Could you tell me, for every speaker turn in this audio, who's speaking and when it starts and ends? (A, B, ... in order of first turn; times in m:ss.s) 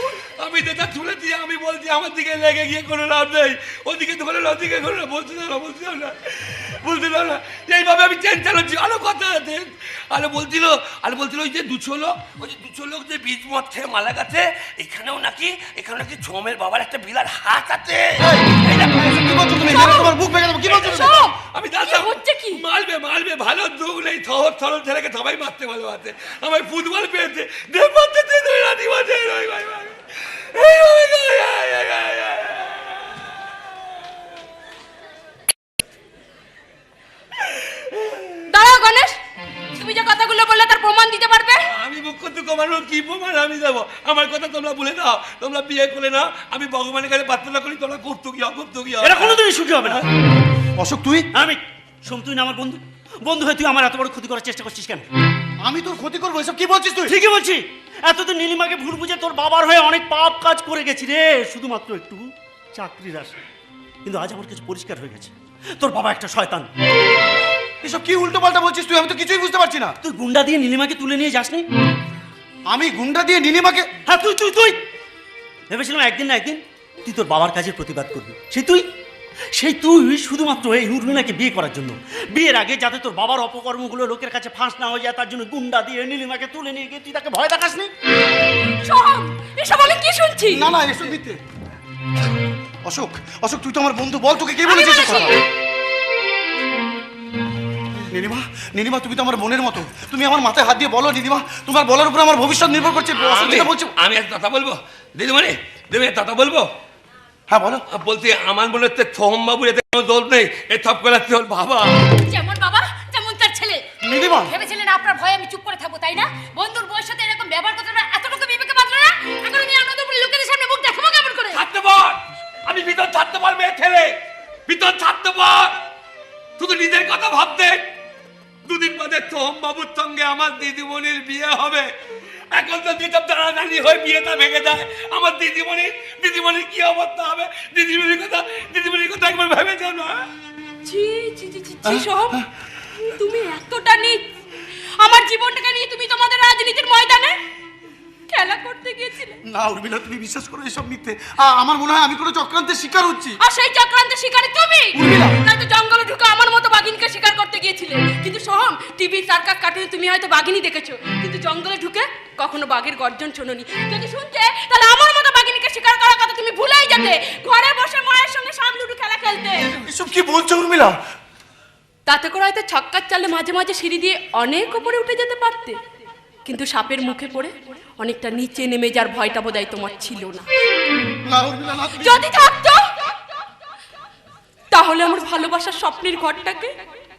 0:00.4-0:19.8 A
0:18.2-0:21.1 B
0:19.6-0:20.1 C
0:20.6-0:33.0 A
0:20.7-0:22.6 C
0:38.4-0:39.2 C
0:39.7-0:41.7 C
0:41.6-0:50.1 A
0:49.0-0:50.0 D
0:50.8-0:51.3 B
0:51.3-0:55.1 D
0:55.6-0:57.1 B
0:57.1-1:03.4 D
1:04.0-1:06.7 D
1:07.8-1:09.9 B
1:10.0-1:11.6 D
1:12.7-1:13.9 B
1:14.1-1:14.8 D
1:15.7-1:18.8 D
1:19.5-1:27.9 D
1:28.7-1:30.7 C
1:30.5-1:31.4 B
1:32.8-1:35.4 B
1:34.6-1:35.4 C
1:38.1-1:43.9 B
1:43.1-1:46.7 A
1:47.5-1:47.8 B
1:47.9-1:52.2 A
1:52.2-2:01.6 E
1:54.0-1:54.5 B
2:01.5-2:04.1 A
2:04.7-2:05.8 A
2:06.6-2:07.8 A
2:08.6-2:11.9 A
2:12.5-2:20.2 A
2:20.8-2:22.4 C
2:21.8-2:22.5 B
2:23.1-2:24.2 C
2:25.0-2:27.4 C
2:28.3-2:29.4 C
2:29.5-2:33.4 B
2:33.4-2:49.7 C
2:34.9-2:35.4 B
2:49.7-2:51.0 B
2:52.0-2:55.8 C
2:56.4-3:00.4 C
3:01.2-3:02.2 B
3:02.0-3:02.9 C
3:04.7-3:06.7 C